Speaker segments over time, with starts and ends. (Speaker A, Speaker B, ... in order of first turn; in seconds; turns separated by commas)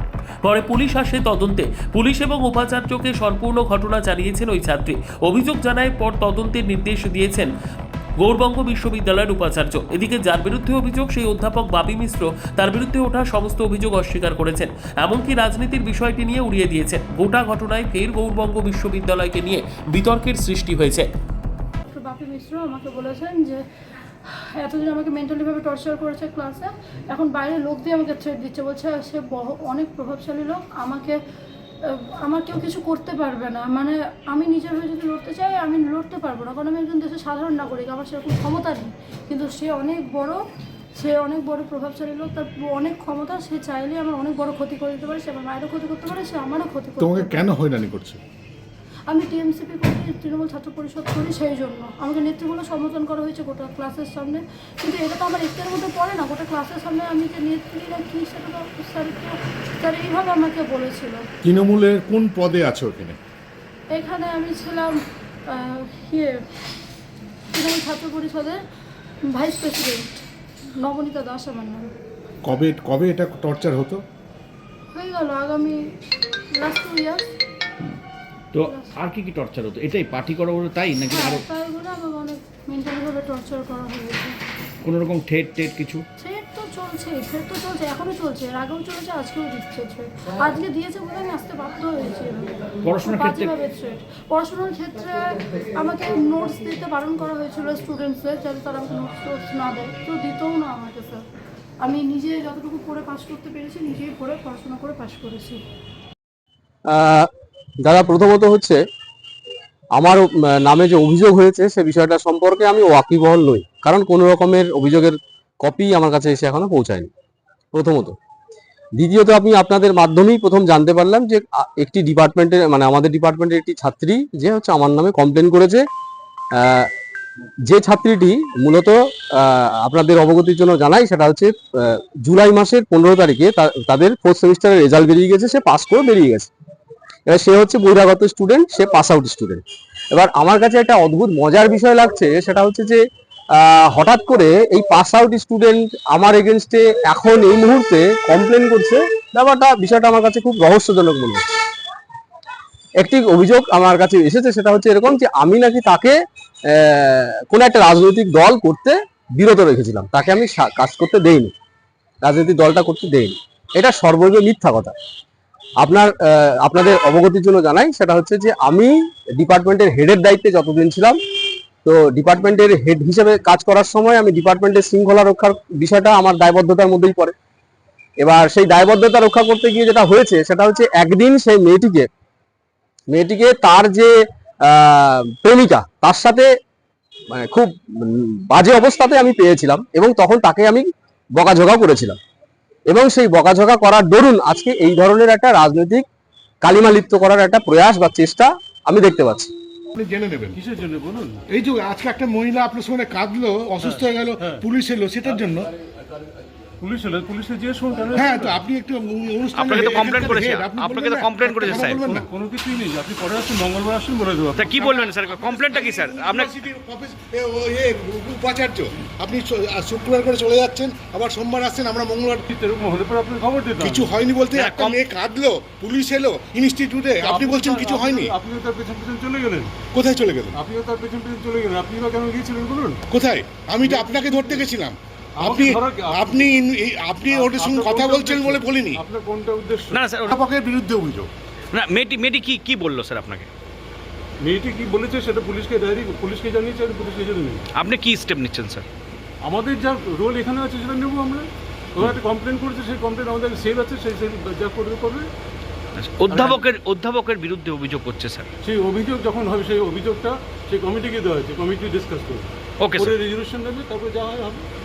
Speaker A: 0.4-7.5, Speaker A: 8.2-21.1, Speaker B: 21.9-23.6, Speaker B: 24.2-31.1, Speaker B: 31.8-40.4, Speaker B: 41.0-47.5, Speaker C: 47.0-48.2, Speaker B: 49.1-61.2, Speaker C: 61.4-63.2, Speaker B: 63.9-65.0, Speaker B: 65.5-66.4, Speaker B: 67.5-68.6, Speaker B: 69.3-70.2, Speaker B: 70.8-71.8, Speaker C: 72.4-74.0, Speaker B: 74.9-75.8, Speaker B: 76.5-77.3, Speaker D: 78.5-81.5, Speaker B: 78.6-78.9, Speaker B: 81.1-84.4, Speaker D: 84.8-86.0, Speaker B: 86.2-101.2, Speaker D: 92.8-93.5, Speaker B: 101.8-105.6, Speaker E: 106.9-107.3, Speaker E: 107.8-108.8, Speaker E: 110.0-117.1, Speaker E: 117.7-118.2, Speaker E: 119.0-125.8, Speaker E: 126.5-126.9, Speaker E: 127.6-136.5, Speaker E: 137.2-143.0, Speaker E: 143.5-151.5, Speaker E: 153.0-161.5, Speaker E: 162.2-164.9, Speaker E: 165.8-171.2, Speaker E: 171.8-177.3, Speaker E: 178.2-182.1, Speaker E: 183.1-186.5, Speaker E: 187.3-192.2, Speaker E: 192.9-196.0, Speaker E: 196.6-199.5, Speaker C: 199.9-200.6, Speaker F: 200.5-201.4, Speaker C: 201.5-205.7, Speaker F: 203.8-204.6, Speaker F: 206.8-208.6, Speaker C: 208.1-212.3, Speaker G: 209.5-212.0, Speaker F: 212.0-214.9, Speaker G: 214.6-216.5, Speaker C: 214.8-222.4, Speaker F: 222.5-224.1, Speaker C: 223.8-228.3, Speaker G: 224.5-225.0, Speaker F: 227.2-229.7, Speaker C: 229.9-230.6, Speaker F: 230.5-233.0, Speaker C: 233.1-239.0, Speaker F: 233.8-234.7, Speaker F: 235.4-236.5, Speaker F: 237.3-240.0, Speaker G: 239.9-240.4, Speaker C: 240.3-241.3, Speaker G: 241.7-243.5, Speaker F: 244.4-247.6, Speaker G: 247.8-248.8, Speaker F: 249.4-255.3, Speaker G: 256.0-258.5, Speaker F: 256.3-256.6, Speaker F: 258.6-264.6, Speaker G: 262.8-263.1